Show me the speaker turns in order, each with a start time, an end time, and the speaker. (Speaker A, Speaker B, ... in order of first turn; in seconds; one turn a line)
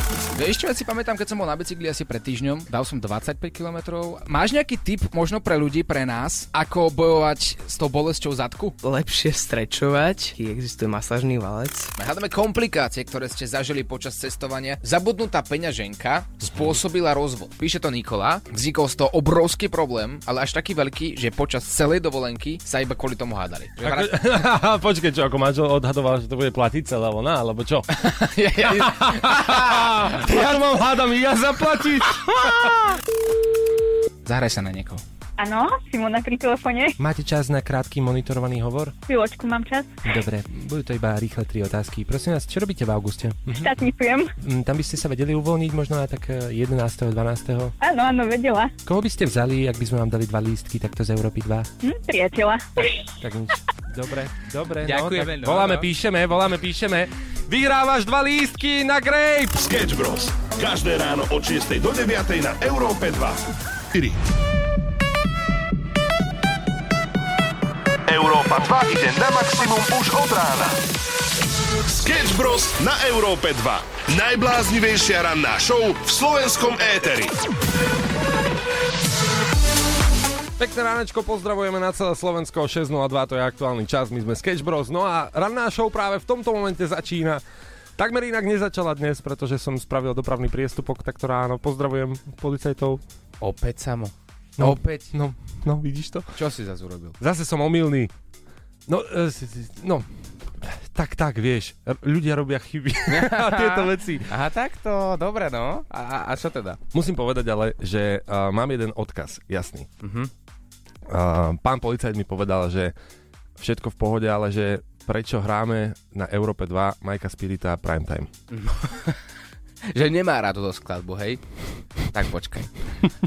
Speaker A: 0.3-8.8
Speaker B: 8.8-11.9
Speaker A: 12.0-24.1
Speaker C: 23.8-32.7
Speaker A: 28.0-30.1
Speaker A: 32.4-32.8
Speaker A: 34.2-35.0
Speaker D: 35.4-37.0
Speaker C: 37.0-38.9
Speaker D: 39.1-40.0
Speaker C: 40.0-43.7
Speaker D: 43.5-44.3
Speaker C: 44.4-47.7
Speaker D: 47.8-48.7
Speaker C: 48.8-51.7
Speaker D: 51.8-52.9
Speaker C: 53.2-59.6
Speaker B: 54.9-55.6
Speaker E: 59.6-63.4
Speaker E: 63.9-64.2
Speaker E: 68.1-70.8
Speaker E: 71.9-77.3
Speaker C: 80.6-87.4
Speaker C: 88.0-93.0
Speaker A: 93.4-95.1
Speaker C: 94.6-96.3
Speaker A: 96.3-97.2
Speaker C: 97.2-98.1
Speaker C: 98.9-104.3
Speaker A: 103.1-106.8
Speaker C: 106.9-109.9
Speaker A: 110.0-110.3
Speaker C: 111.1-112.9
Speaker C: 113.6-118.3
Speaker A: 118.5-119.2
Speaker A: 119.9-121.4
Speaker A: 122.0-123.1